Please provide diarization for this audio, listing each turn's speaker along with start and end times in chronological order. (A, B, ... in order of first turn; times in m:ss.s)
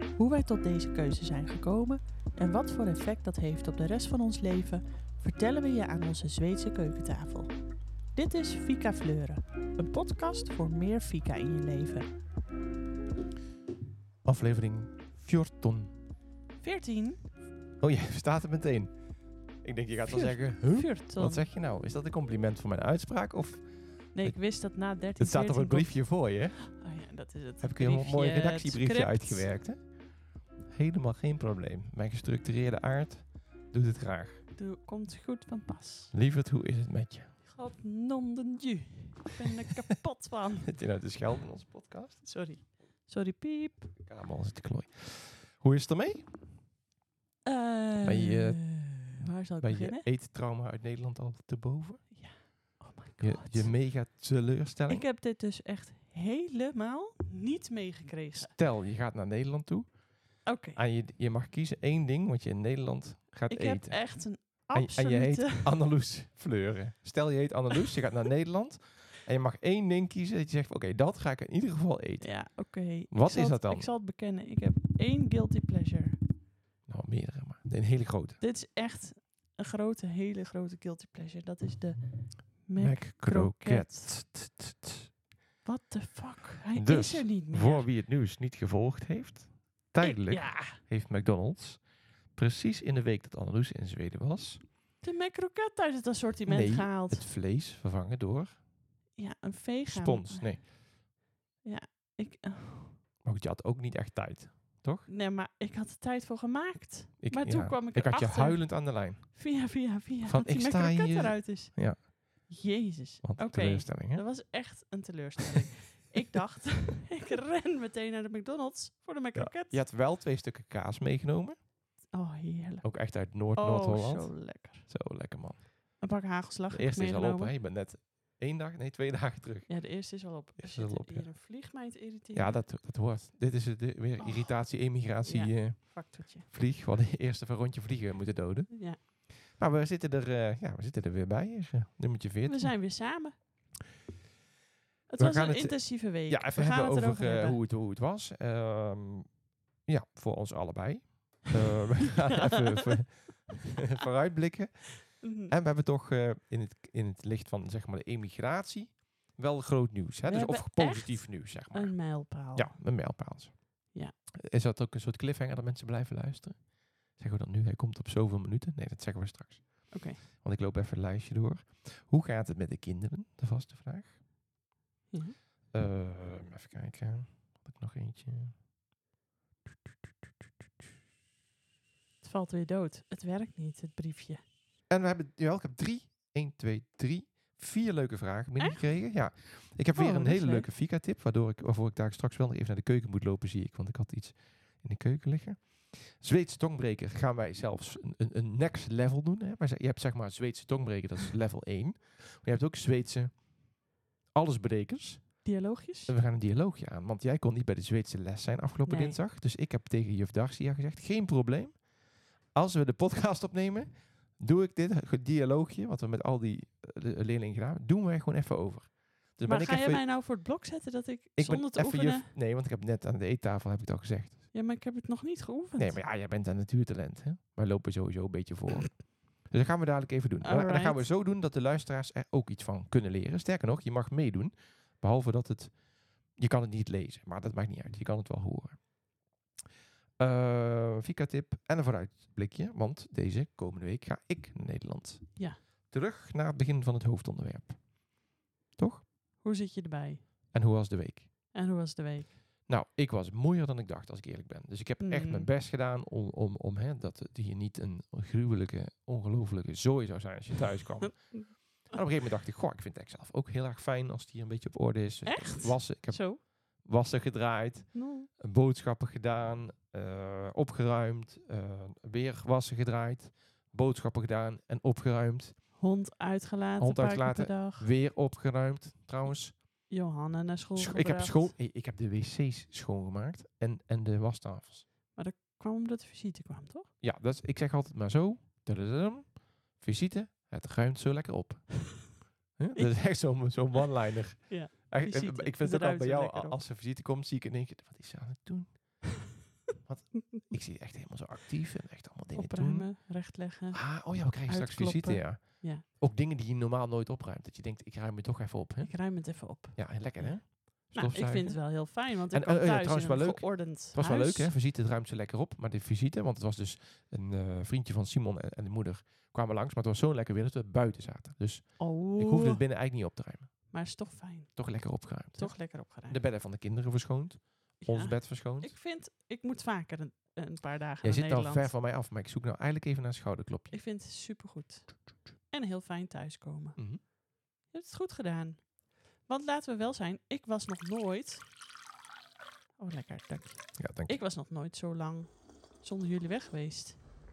0:00.2-0:07.5 A
0:08.2-0:12.1 A
0:14.2-0:15.9 B
0:16.6-0:17.3 A
0:17.8-0:18.9 B
0:19.6-0:24.6 B
0:20.1-0:21.5 A
0:24.2-0:29.5 A
0:25.2-0:26.7 B
0:27.6-0:29.9 B
0:30.7-0:34.4 B
0:34.6-0:36.1 A
0:36.1-0:37.3 B
0:37.4-0:40.8 A
0:40.7-0:42.2 B
0:42.2-0:43.9 A
0:44.0-0:46.3 B
0:47.5-0:50.0 A
0:48.0-0:49.1 B
0:49.6-0:52.2 B
0:52.1-0:53.7 A
0:53.2-0:55.1 B
0:54.9-0:58.5 A
0:58.4-1:13.9 B
1:00.5-1:00.8 A
1:03.5-1:05.8 A
1:12.2-1:16.2 A
1:16.9-1:18.4 B
1:18.4-1:24.1 A
1:22.8-1:25.1 B
1:25.6-1:27.9 A
1:26.8-1:34.6 B
1:30.0-1:30.8 A
1:35.0-1:37.3 A
1:36.5-1:38.6 B
1:39.2-1:40.7 A
1:39.9-1:40.7 B
1:41.6-1:43.0 A
1:43.2-1:45.1 B
1:45.1-1:59.8 A
1:47.2-1:49.5 B
1:50.3-1:52.1 B
1:53.2-1:54.2 B
1:59.4-2:01.6 B
2:02.1-2:04.9 A
2:02.8-2:06.1 B
2:06.0-2:07.5 A
2:06.7-2:11.3 B
2:09.7-2:12.6 A
2:12.3-2:22.7 B
2:15.2-2:16.5 A
2:18.7-2:19.0 A
2:22.4-2:23.4 A
2:25.1-2:27.6 A
2:25.2-2:29.4 B
2:29.9-2:54.2 B
2:35.2-2:35.5 A
2:40.2-2:42.8 A
2:49.9-2:50.2 A
2:55.1-2:55.4 A
2:55.7-2:58.6 B
3:02.2-3:04.4 A
3:04.9-3:23.8 B
3:08.6-3:08.8 A
3:09.9-3:10.7 A
3:24.3-3:32.0 B
3:25.4-3:26.2 A
3:28.9-3:29.2 A
3:32.5-3:40.1 B
3:39.4-3:42.3 A
3:41.4-3:44.4 B
3:44.5-3:46.0 A
3:45.8-3:59.0 B
3:50.4-3:51.1 A
4:00.2-4:08.1 B
4:08.8-4:09.1 B
4:09.4-4:10.3 A
4:10.5-4:11.3 B
4:11.5-4:12.3 A
4:12.7-4:35.6 B
4:15.0-4:15.5 A
4:21.0-4:21.7 A
4:25.3-4:26.4 A
4:27.9-4:28.3 A
4:35.8-4:37.9 A
4:36.8-4:39.9 B
4:39.9-4:41.5 A
4:40.8-4:44.9 B
4:45.1-4:46.9 A
4:47.0-4:59.2 B
4:52.8-4:53.5 A
4:54.5-4:56.6 A
4:59.8-5:23.7 B
5:02.3-5:05.8 A
5:08.8-5:14.5 A
5:21.8-5:22.6 A
5:23.7-5:26.2 A
5:24.6-5:28.8 B
5:27.8-5:31.7 A
5:31.0-5:33.8 B
5:33.7-5:41.5 A
5:36.8-5:37.0 B
5:42.8-5:47.0 A
5:43.8-5:44.2 B